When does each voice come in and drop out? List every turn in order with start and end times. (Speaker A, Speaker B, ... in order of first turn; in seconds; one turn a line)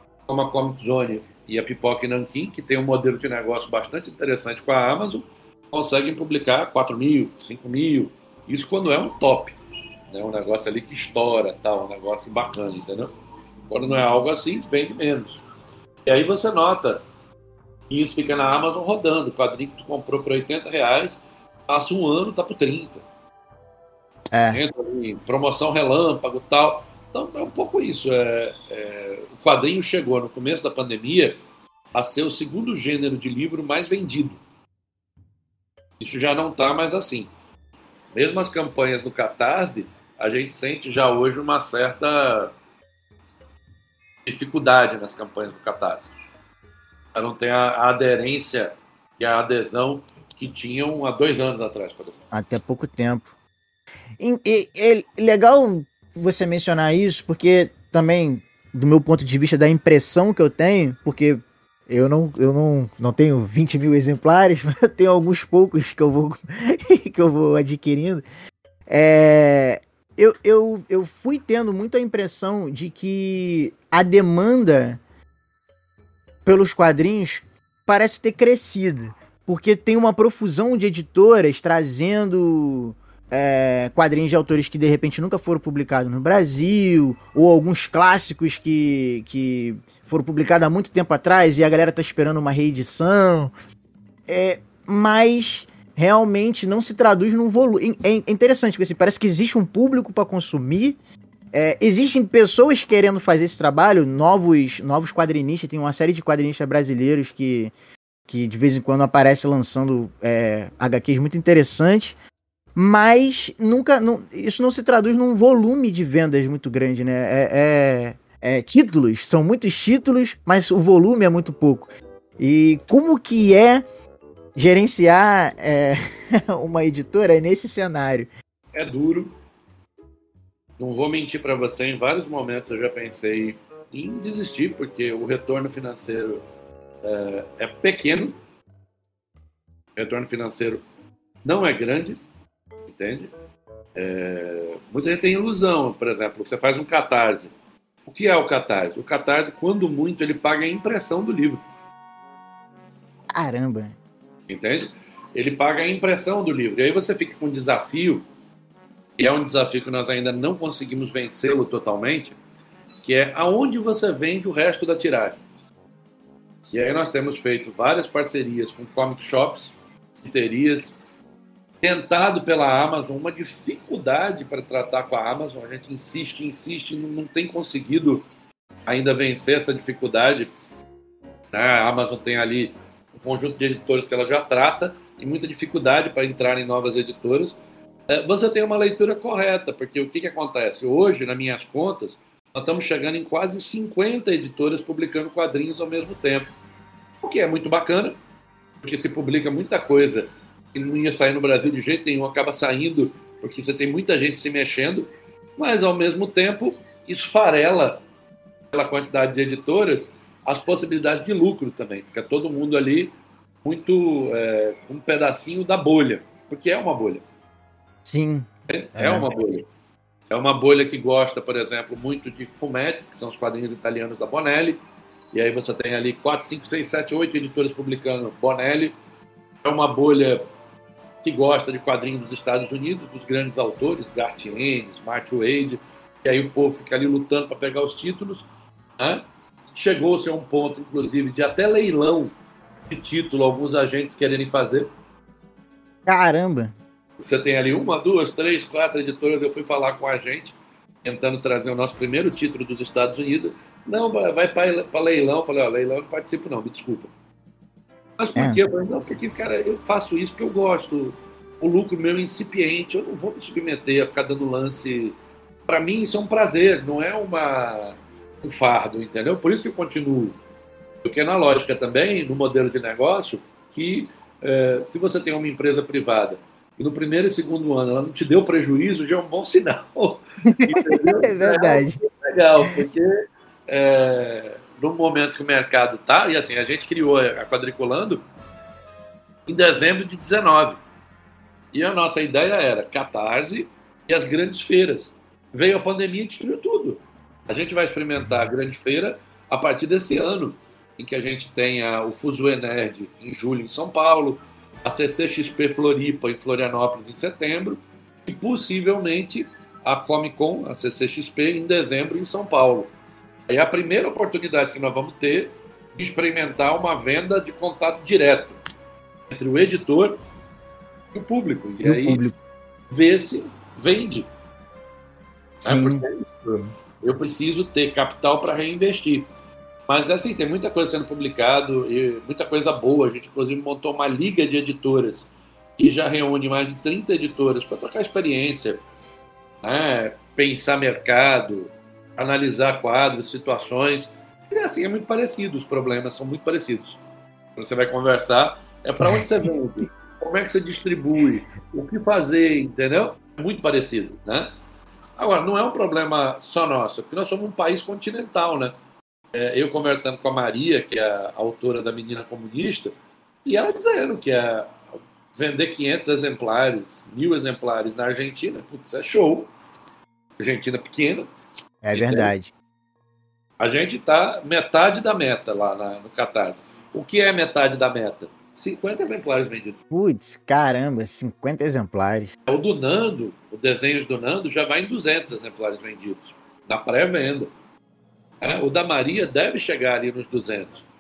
Speaker A: 0.3-9.6
Speaker A: 10.1-13.1
Speaker A: 13.7-15.4
Speaker A: 16.1-17.0
Speaker A: 17.9-23.1
Speaker B: 24.3-24.6
Speaker A: 24.5-31.4
Speaker A: 31.9-34.4
Speaker A: 36.0-37.3
Speaker A: 38.1-42.5
Speaker A: 44.3-46.1
Speaker A: 47.1-52.2
Speaker B: 52.3-53.3
Speaker B: 54.2-68.2
Speaker B: 68.9-75.0
Speaker B: 76.5-93.5
Speaker B: 94.3-101.0
Speaker B: 101.5-107.7
Speaker B: 108.3-112.2
Speaker B: 112.8-123.8
Speaker B: 124.6-128.3
Speaker A: 128.7-129.3
Speaker A: 130.8-136.4
Speaker A: 137.0-138.4
Speaker A: 140.0-140.8
Speaker A: 141.4-142.2
Speaker A: 142.9-143.3
Speaker A: 144.0-147.5
Speaker A: 148.1-151.6
Speaker B: 153.3-153.9
Speaker A: 154.5-158.2
Speaker A: 159.2-162.4
Speaker A: 163.0-165.4
Speaker A: 166.7-171.0
Speaker A: 171.8-178.2
Speaker A: 178.9-180.5
Speaker A: 181.5-187.6
Speaker A: 188.1-196.5
Speaker A: 197.2-198.2
Speaker A: 198.8-208.0
Speaker A: 208.7-213.1
Speaker A: 213.6-217.2
Speaker B: 218.1-219.3
Speaker A: 218.7-219.7
Speaker A: 220.3-224.8
Speaker A: 225.3-228.9
Speaker A: 229.6-230.4
Speaker A: 231.2-238.5
Speaker A: 239.8-242.3
Speaker A: 242.9-244.9
Speaker B: 246.1-246.7
Speaker A: 247.2-257.1
Speaker A: 258.2-265.2
Speaker B: 258.4-258.6
Speaker A: 265.7-270.4
Speaker A: 271.0-288.2
Speaker B: 280.5-282.0
Speaker A: 289.5-290.8
Speaker A: 291.7-312.9
Speaker A: 313.5-318.6
Speaker A: 319.3-320.2
Speaker A: 321.1-322.2
Speaker B: 321.8-322.4
Speaker A: 322.9-324.3
Speaker B: 325.6-326.0
Speaker A: 325.6-329.3
Speaker A: 329.9-338.8
Speaker A: 339.6-347.0
Speaker A: 347.6-354.5
Speaker B: 349.0-349.3
Speaker A: 355.2-358.7
Speaker A: 359.3-362.9
Speaker A: 363.4-364.8
Speaker A: 365.3-369.5
Speaker A: 370.4-371.3
Speaker B: 371.8-372.5
Speaker A: 371.9-372.3
Speaker A: 373.6-379.8
Speaker B: 379.9-382.3
Speaker A: 382.5-387.5
Speaker A: 388.4-390.8